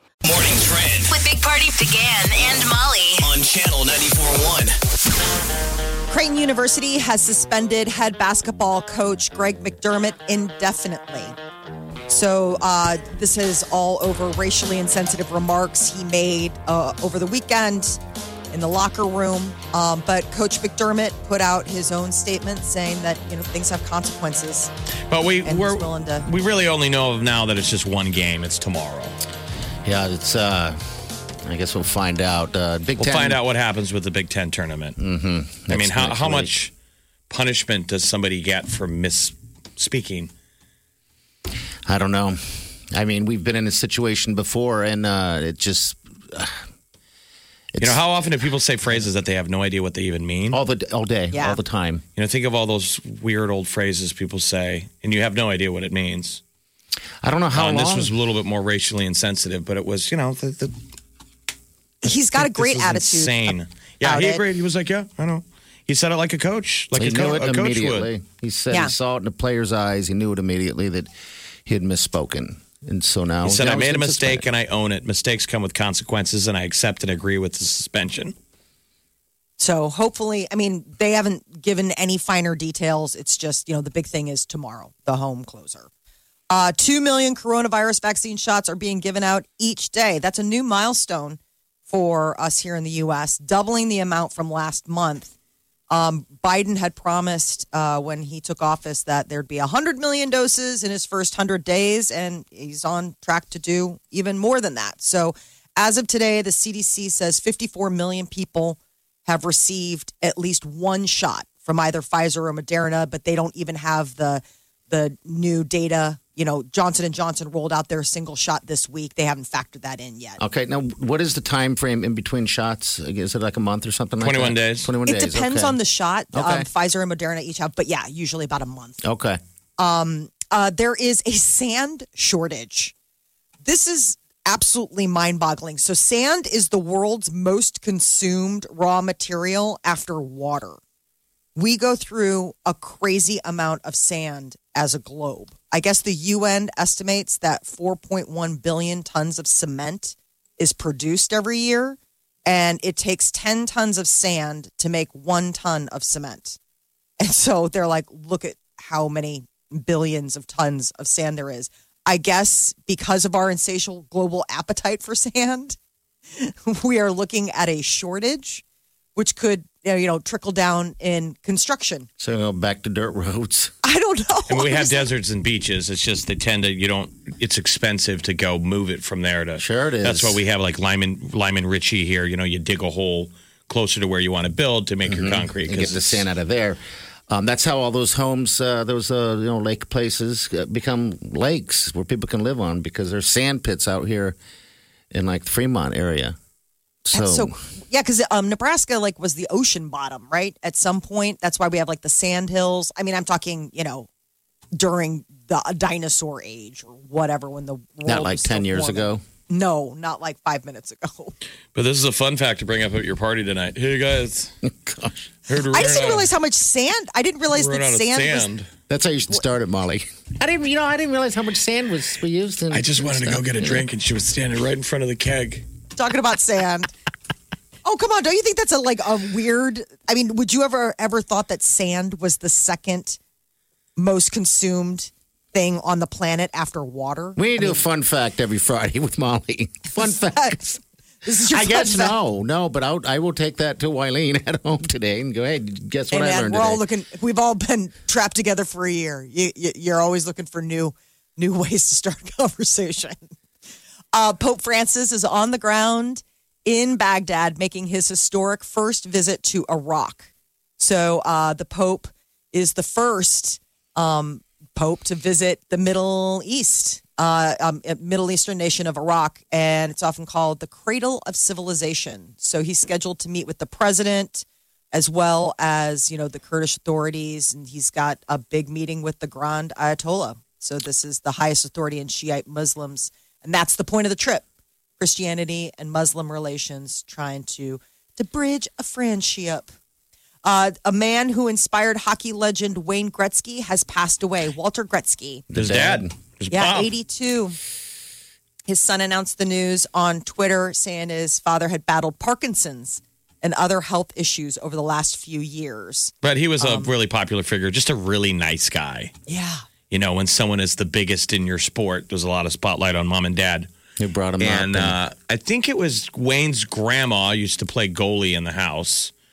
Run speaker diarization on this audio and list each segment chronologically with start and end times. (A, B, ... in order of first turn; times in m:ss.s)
0:00.2-0:01.1 A
0:01.1-0:03.3 B
0:03.2-0:04.8 A
0:06.1-0:11.4 C
0:12.1-0:18.0 C
0:18.5-0:24.7 C
0:25.1-0:29.2 D
0:25.4-0:26.3 C
0:29.8-0:30.8 E
0:31.4-0:33.4 E
0:33.0-0:35.0 D
0:35.0-0:36.6 E
0:35.7-0:36.7 D
0:37.3-0:40.3 D
0:41.9-0:46.7 E
0:47.7-0:48.0 E
0:47.8-0:50.6 D
0:50.5-0:52.0 E
0:51.3-0:51.6 C
0:52.2-0:56.4 D
0:57.2-0:58.2 E
0:57.5-1:00.7 D
1:02.0-1:04.4 C
1:02.1-1:08.1 D
1:07.0-1:11.1 E
1:11.7-1:14.4 E
1:13.4-1:18.3 D
1:19.6-1:25.9 C
1:26.5-1:35.3 C
1:35.9-2:00.4 C
2:00.4-2:05.8 E
2:04.2-2:04.9 D
2:05.1-2:09.0 C
2:06.3-2:06.7 E
2:09.0-2:09.4 E
2:09.8-2:12.9 C
2:13.6-2:20.8 C
2:21.6-2:36.6 C
2:37.2-2:45.8 C
2:46.4-2:48.6 C
2:49.2-2:52.1 C
2:52.2-2:53.7 E
2:53.8-2:55.1 C
2:54.5-3:06.2 D
2:59.6-3:00.4 E
3:05.1-3:14.4 E
3:15.1-3:16.4 E
3:17.1-3:17.6 E
3:17.1-3:24.1 C
3:24.8-3:31.4 C
3:28.1-3:29.2 E
3:31.8-3:34.5 D
3:34.6-3:35.3 E
3:35.5-3:36.3 D
3:35.7-3:38.5 C
3:37.5-3:38.7 D
3:38.9-3:43.8 E
3:42.7-3:45.6 D
3:46.0-3:46.9 C
3:47.8-3:53.2 C
3:54.0-3:57.8 C
3:57.4-4:00.8 E
4:00.0-4:00.6 C
4:01.2-4:02.2 C
4:01.5-4:06.8 E
4:06.1-4:13.3 C
4:14.1-4:44.4 C
4:45.0-4:49.7 C
4:50.4-4:55.4 C
4:55.5-4:56.1 E
4:55.5-4:56.9 D
4:56.5-4:57.6 C
4:58.7-5:06.9 C
5:06.2-5:09.1 D
5:09.3-5:09.6 C
5:09.9-5:13.7 D
5:14.0-5:15.0 E
5:14.4-5:19.1 D